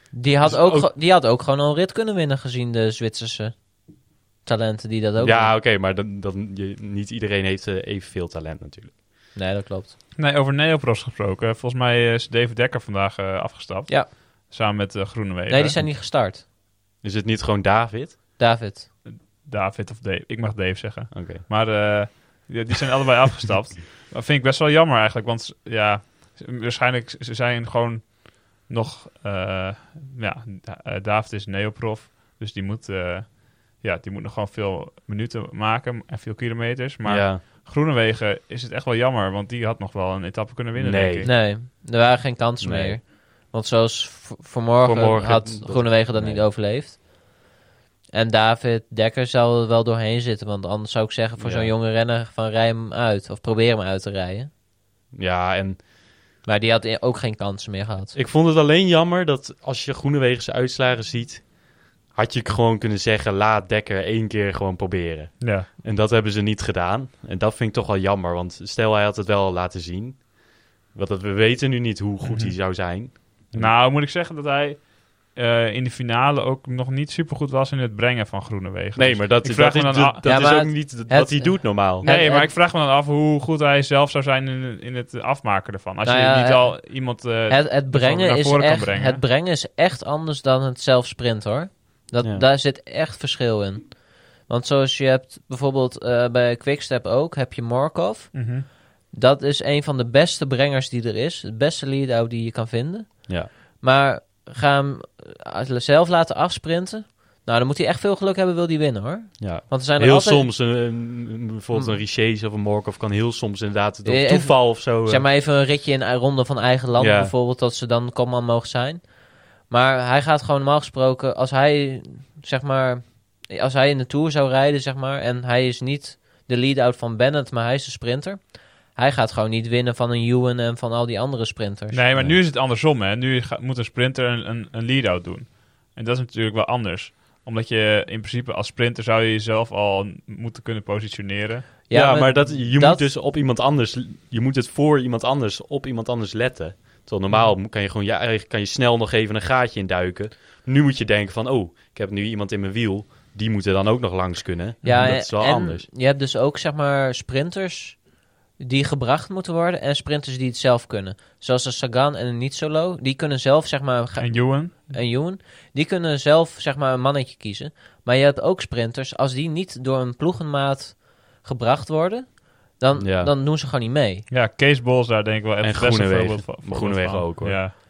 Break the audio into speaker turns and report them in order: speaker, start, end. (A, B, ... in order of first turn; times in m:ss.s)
0:00.1-0:05.6 A
0:00.4-0:00.9 B
0:05.2-0:08.9 B
0:09.4-0:10.0 A
0:10.2-0:15.8 C
0:15.5-0:16.4 A
0:17.0-0:18.2 B
0:18.4-0:18.9 A
0:19.0-0:41.3 C
0:21.1-0:21.4 B
0:37.0-0:37.4 B
0:40.8-0:41.3 B
0:41.2-0:47.1 A
0:42.6-0:43.0 B
0:44.8-0:46.5 B
0:48.1-0:54.5 A
0:51.4-0:51.7 B
0:55.1-0:55.8 B
0:56.4-0:58.2 A
0:58.1-1:10.4 B
1:05.4-1:05.7 C
1:10.9-1:13.8 B
1:12.2-1:12.6 C
1:13.1-1:20.6 C
1:19.0-1:22.1 B
1:20.2-1:22.5 A
1:22.0-1:29.2 C
1:26.0-1:50.5 A
1:38.3-1:38.7 C
1:49.4-1:55.2 B
1:54.0-2:12.0 A
1:57.0-1:57.3 B
2:11.9-2:21.7 C
2:21.9-2:23.1 A
2:21.9-2:35.9 B
2:34.8-2:35.2 C
2:34.8-2:38.0 A
2:38.6-2:54.3 A
2:44.2-2:45.0 C
2:53.0-2:53.3 B
2:54.3-2:57.7 C
2:55.6-2:57.6 B